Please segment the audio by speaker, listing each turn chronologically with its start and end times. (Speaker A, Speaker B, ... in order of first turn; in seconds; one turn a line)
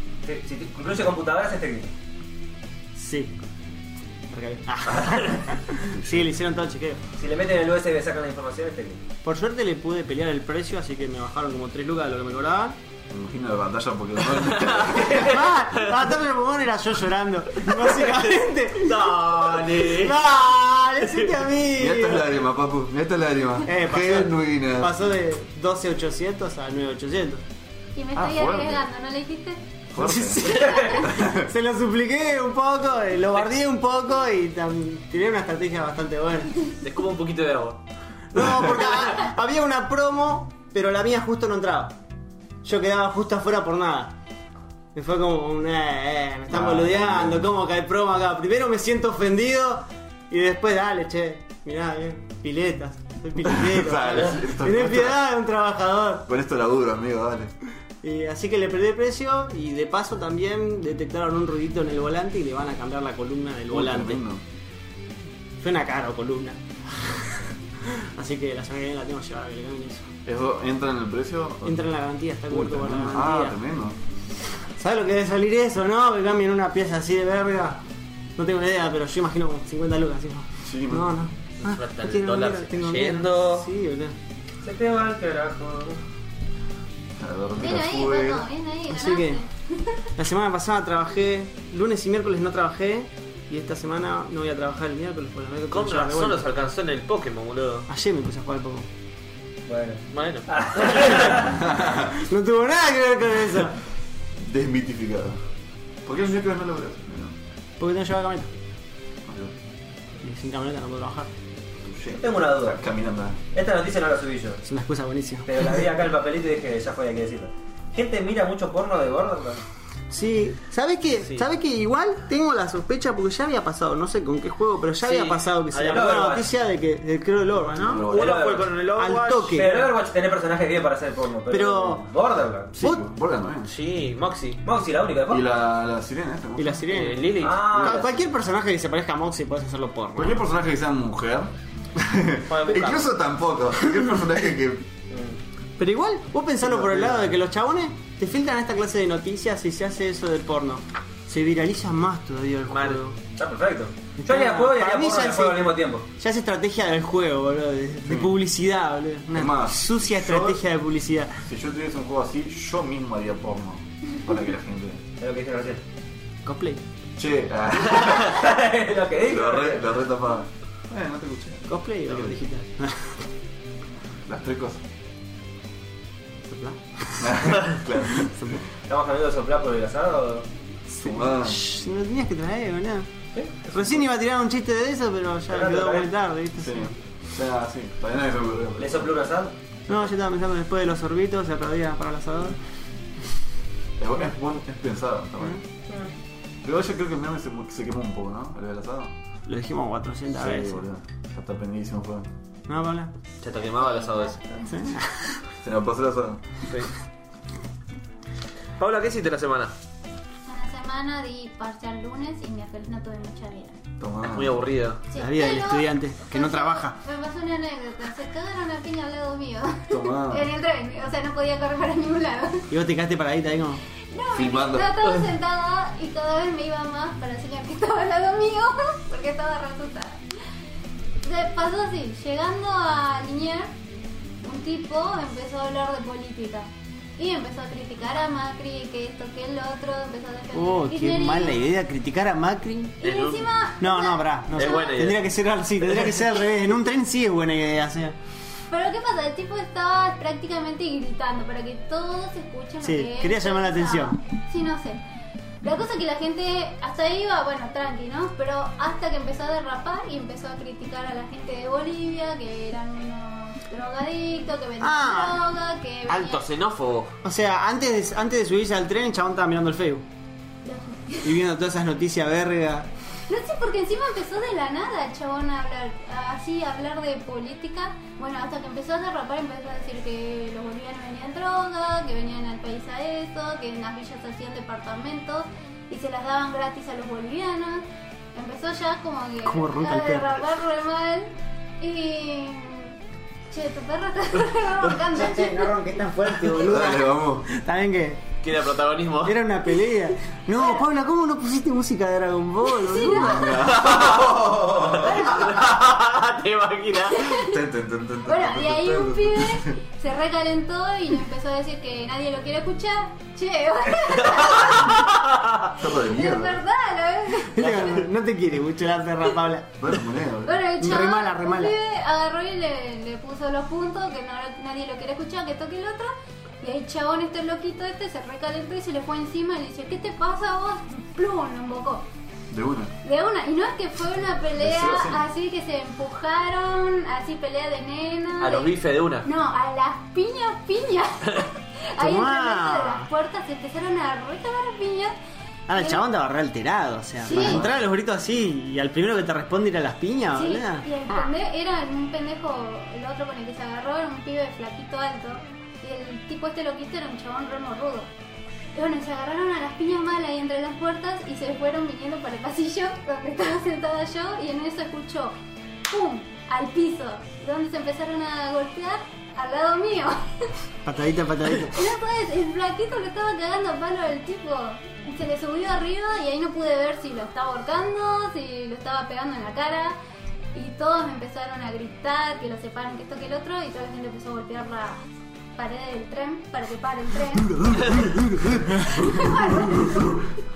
Speaker A: 0.2-1.9
Speaker B: 2.9-3.3
Speaker B: 4.3-7.0
Speaker A: 7.2-9.0
Speaker B: 9.2-12.8
Speaker C: 13.1-15.3
Speaker B: 15.1-22.3
Speaker D: 18.7-20.2
Speaker C: 21.7-25.0
Speaker B: 23.6-27.4
Speaker E: 27.9-29.6
Speaker C: 28.1-28.9
Speaker C: 29.9-31.5
Speaker B: 30.0-36.5
Speaker A: 30.6-31.0
Speaker D: 36.8-37.8
Speaker B: 38.3-41.9
Speaker B: 42.6-44.1
Speaker B: 44.9-56.3
Speaker C: 46.5-47.5
Speaker C: 53.4-55.2
Speaker C: 56.3-57.5
Speaker B: 58.0-64.2
Speaker C: 63.7-64.4
Speaker B: 65.6-67.3
Speaker B: 67.8-70.1
Speaker C: 70.2-71.9
Speaker B: 71.6-73.6
Speaker C: 72.5-74.0
Speaker B: 74.8-77.8
Speaker B: 78.3-84.2
Speaker C: 80.6-81.1
Speaker D: 81.6-83.7
Speaker A: 84.6-86.0
Speaker C: 87.2-88.5
Speaker E: 87.6-90.0
Speaker B: 88.9-89.4
Speaker B: 90.2-96.5
Speaker D: 95.7-97.9
Speaker B: 97.9-98.9
Speaker A: 99.7-101.6
Speaker D: 100.1-101.1
Speaker C: 101.5-102.1
Speaker B: 102.1-103.8
Speaker C: 104.4-105.4
Speaker C: 106.0-107.3
Speaker B: 107.8-108.5
Speaker C: 109.2-109.5
Speaker B: 110.2-111.3
Speaker C: 111.8-113.4
Speaker A: 112.2-112.8
Speaker A: 113.5-114.6
Speaker B: 114.6-115.5
Speaker A: 115.4-119.6
Speaker B: 120.1-128.0
Speaker D: 125.0-126.1
Speaker A: 125.8-126.5
Speaker C: 127.8-128.5
Speaker D: 127.8-129.9
Speaker A: 128.1-128.8
Speaker B: 128.9-129.8
Speaker A: 129.5-132.8
Speaker B: 131.5-132.1
Speaker C: 132.7-133.7
Speaker D: 133.6-134.6
Speaker A: 134.6-135.4
Speaker C: 135.3-136.9
Speaker B: 136.6-140.4
Speaker D: 136.9-138.1
Speaker A: 137.4-138.1
Speaker C: 140.2-144.9
Speaker D: 142.5-143.1
Speaker A: 145.1-145.4
Speaker B: 145.8-153.1
Speaker C: 146.7-147.1
Speaker D: 152.7-153.1
Speaker A: 153.3-156.0
Speaker B: 154.2-161.4
Speaker C: 158.1-158.4
Speaker C: 159.3-160.6
Speaker C: 161.4-165.0
Speaker A: 165.2-165.8
Speaker B: 166.4-166.8
Speaker C: 167.2-168.4
Speaker A: 168.2-169.9
Speaker C: 169.2-172.4
Speaker B: 171.7-173.2
Speaker C: 174.2-174.8
Speaker B: 176.5-177.3
Speaker C: 177.2-178.6
Speaker A: 178.9-180.4
Speaker B: 180.9-183.1
Speaker C: 181.0-181.6
Speaker A: 183.3-183.7
Speaker B: 183.7-186.9
Speaker A: 185.5-186.1
Speaker C: 186.6-189.1
Speaker A: 188.8-189.6
Speaker B: 189.9-192.6
Speaker C: 194.0-195.6
Speaker C: 196.6-199.1
Speaker B: 199.4-200.8
Speaker C: 200.3-202.3
Speaker B: 202.7-203.1
Speaker D: 203.4-204.4
Speaker E: 203.6-204.4
Speaker B: 204.7-205.4
Speaker C: 205.6-206.4
Speaker D: 208.8-209.7
Speaker E: 210.4-213.8
Speaker C: 214.0-214.6
Speaker D: 214.2-215.0
Speaker E: 215.1-222.7
Speaker B: 215.1-216.9
Speaker C: 219.9-220.5
Speaker B: 222.7-223.8
Speaker E: 224.1-230.2
Speaker C: 224.3-225.0
Speaker E: 231.2-233.7
Speaker E: 234.4-241.6
Speaker B: 240.5-243.0
Speaker D: 243.0-243.5
Speaker E: 243.0-244.9
Speaker B: 243.8-248.2
Speaker D: 244.5-245.3
Speaker D: 245.8-246.2
Speaker E: 248.7-255.0
Speaker B: 252.8-254.2
Speaker E: 255.6-266.4
Speaker B: 264.8-265.4
Speaker D: 266.1-267.1
Speaker B: 267.2-270.0
Speaker E: 270.6-271.3
Speaker B: 271.2-272.9
Speaker E: 273.3-293.0
Speaker B: 289.4-290.4
Speaker E: 293.5-295.7
Speaker B: 295.1-298.2
Speaker C: 296.5-297.5
Speaker D: 298.4-299.4
Speaker B: 299.2-303.7
Speaker E: 302.7-303.6
Speaker C: 303.1-305.5
Speaker D: 303.7-307.4
Speaker E: 307.1-307.6
Speaker C: 307.3-309.8
Speaker E: 308.2-315.1
Speaker D: 314.3-315.6
Speaker C: 315.8-316.6
Speaker E: 315.9-317.9
Speaker B: 317.5-319.7
Speaker C: 319.8-320.6
Speaker E: 320.4-332.1
Speaker B: 320.8-321.7
Speaker C: 332.5-332.9
Speaker E: 333.0-345.1
Speaker C: 334.6-335.2
Speaker D: 338.4-339.3
Speaker B: 342.0-343.1
Speaker B: 345.7-351.3
Speaker E: 345.7-346.0
Speaker E: 347.2-347.6
Speaker C: 347.3-347.8
Speaker E: 350.3-358.1
Speaker E: 358.7-365.3
Speaker E: 365.9-370.5
Speaker B: 370.8-371.8
Speaker E: 371.6-380.0
Speaker E: 380.5-385.0
Speaker E: 385.6-390.3